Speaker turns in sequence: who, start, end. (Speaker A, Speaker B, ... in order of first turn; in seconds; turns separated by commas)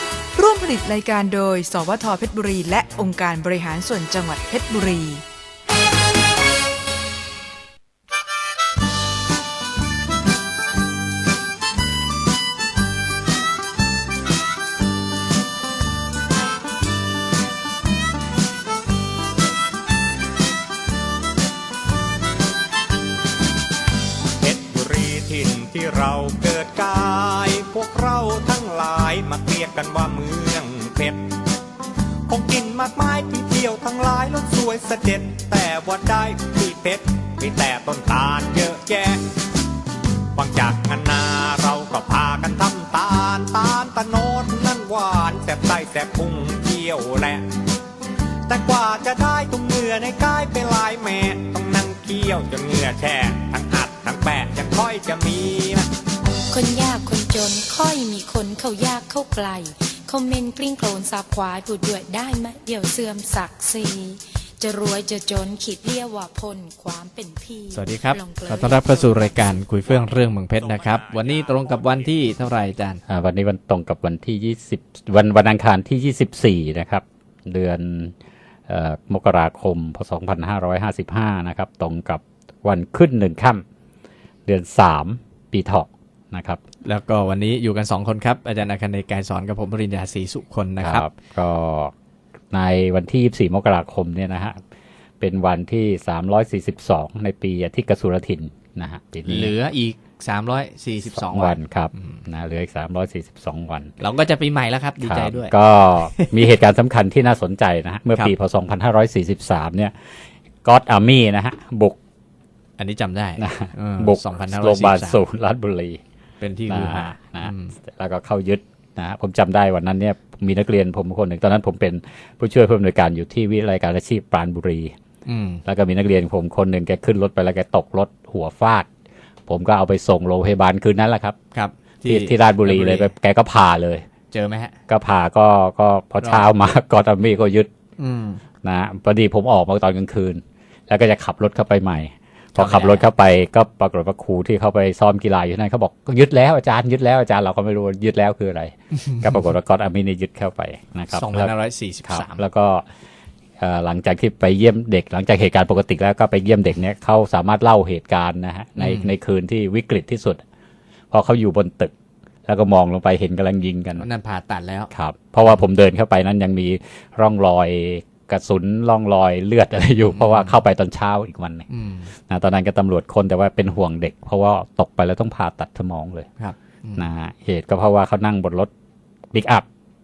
Speaker A: 0.3-5.2, Speaker B: 24.4-31.4, Speaker B: 32.3-39.3, Speaker B: 40.3-47.5, Speaker B: 48.5-55.9, Speaker C: 56.5-69.3, Speaker D: 67.7-73.0, Speaker B: 70.6-71.6, Speaker E: 73.1-78.1, Speaker E: 78.7-83.6, Speaker E: 84.5-86.6, Speaker D: 86.8-91.1, Speaker E: 90.8-91.9, Speaker E: 92.5-94.6, Speaker E: 95.2-99.5, Speaker D: 99.3-102.2, Speaker E: 101.1-103.9, Speaker D: 104.0-106.5, Speaker E: 105.0-109.9, Speaker E: 110.6-112.0, Speaker D: 112.8-115.2, Speaker E: 113.4-116.0, Speaker D: 116.4-117.7, Speaker E: 116.7-124.9, Speaker D: 125.2-125.6, Speaker E: 125.7-128.9, Speaker E: 129.5-131.4, Speaker D: 131.5-133.1, Speaker E: 132.1-134.1, Speaker D: 134.3-134.7, Speaker E: 134.9-137.7, Speaker D: 138.0-138.4, Speaker E: 138.6-151.5, Speaker D: 142.6-143.1, Speaker D: 151.1-152.4, Speaker E: 152.1-152.9, Speaker E: 153.6-160.4, Speaker D: 158.8-159.1, Speaker E: 161.1-161.9, Speaker E: 162.5-164.1, Speaker D: 164.0-164.9, Speaker E: 164.9-171.7, Speaker D: 170.1-170.6, Speaker D: 171.7-172.1, Speaker E: 172.3-176.3, Speaker D: 176.4-177.1, Speaker E: 177.0-178.7, Speaker E: 179.3-179.7